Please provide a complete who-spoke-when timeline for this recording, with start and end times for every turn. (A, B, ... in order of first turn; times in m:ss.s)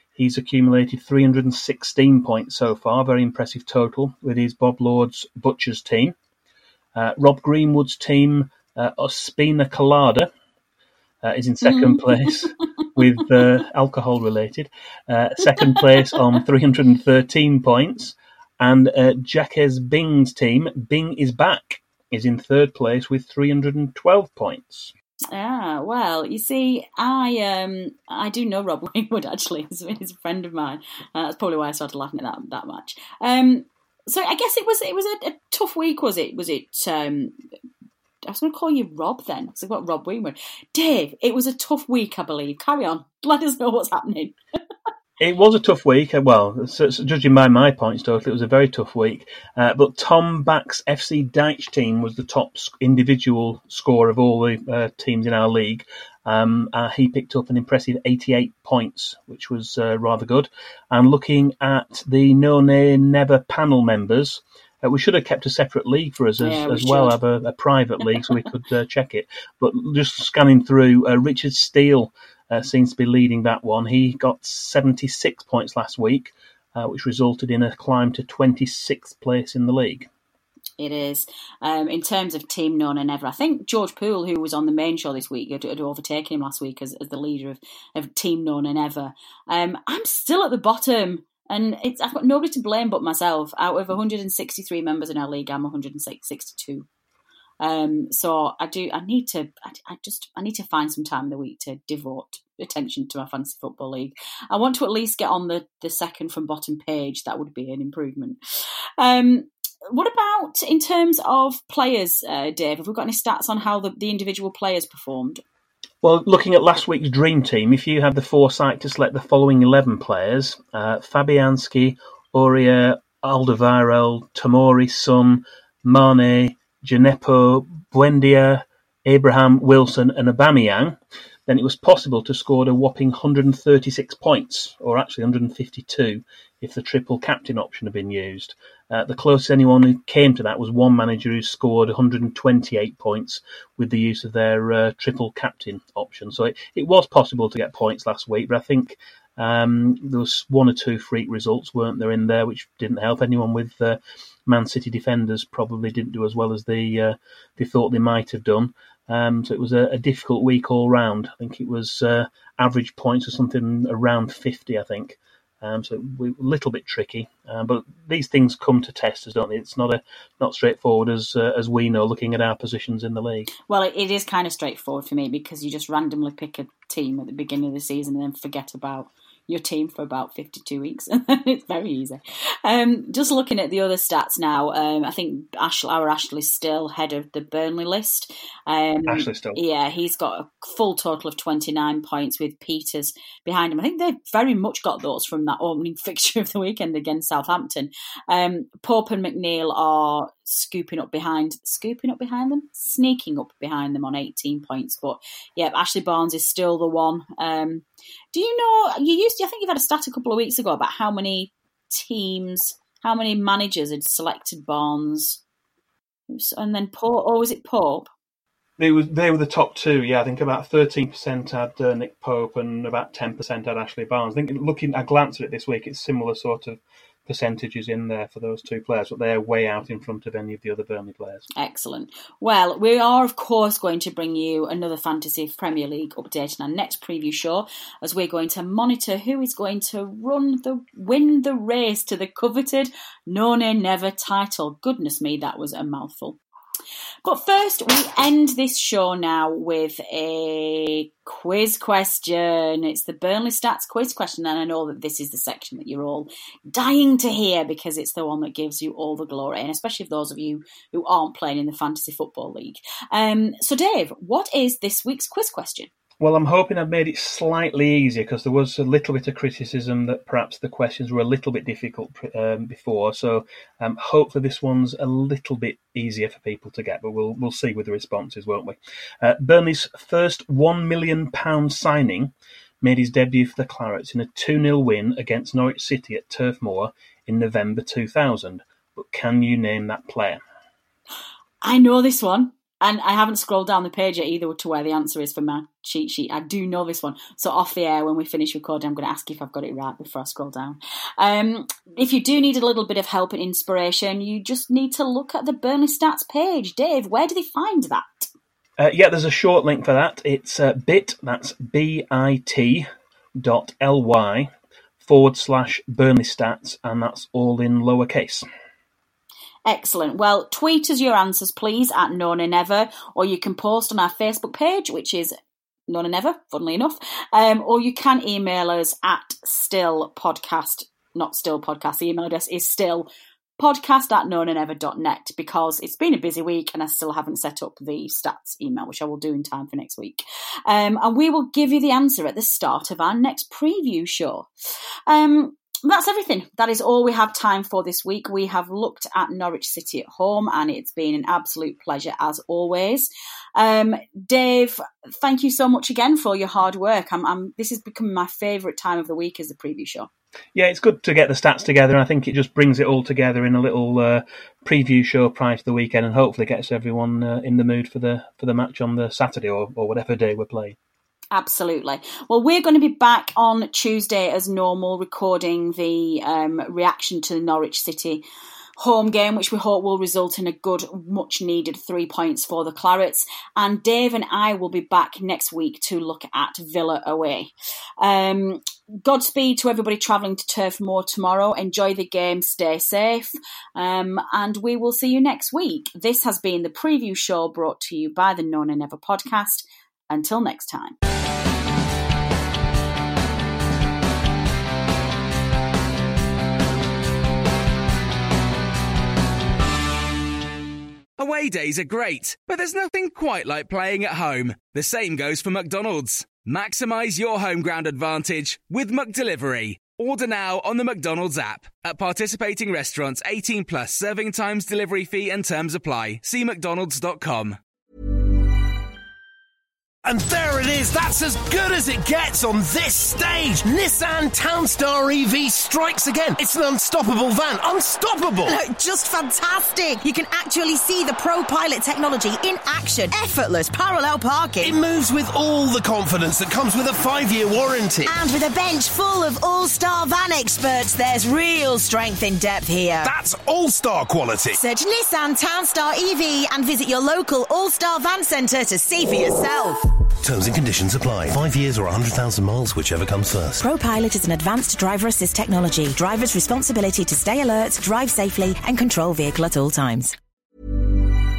0:00.2-0:06.1 A
0:07.0-0:10.3 A
0:11.2-0:24.9 A
0:11.9-0:12.5 B
0:25.3-0:37.4 B
0:38.3-0:44.4 B
0:45.2-1:20.1 A
1:06.4-1:07.2 B
1:20.8-1:36.9 B
1:37.6-1:48.4 B
1:49.0-1:55.4 B
1:56.0-2:53.5 A
2:53.7-3:35.4 B
3:09.1-3:09.6 A
3:36.3-3:38.1 B
3:38.8-3:51.4 A
3:51.6-4:06.4 B
4:07.2-4:25.9 B
4:26.2-4:50.4 A
4:51.6-5:08.3 B
5:08.8-5:12.9 A
5:13.4-5:14.5 A
5:15.0-5:18.5 A
5:19.6-5:25.3 B
5:25.9-5:44.5 B
5:45.1-6:00.1 B
6:00.6-6:10.8 A
6:11.3-6:18.2 B
6:18.8-6:41.0 B
6:51.2-7:07.6 C
7:10.0-7:18.6 D
7:18.5-7:24.8 E
7:24.6-7:28.2 D
7:28.1-7:33.1 E
7:33.0-7:34.6 D
7:34.5-7:39.8 E
7:40.2-7:43.7 D
7:43.6-7:50.2 E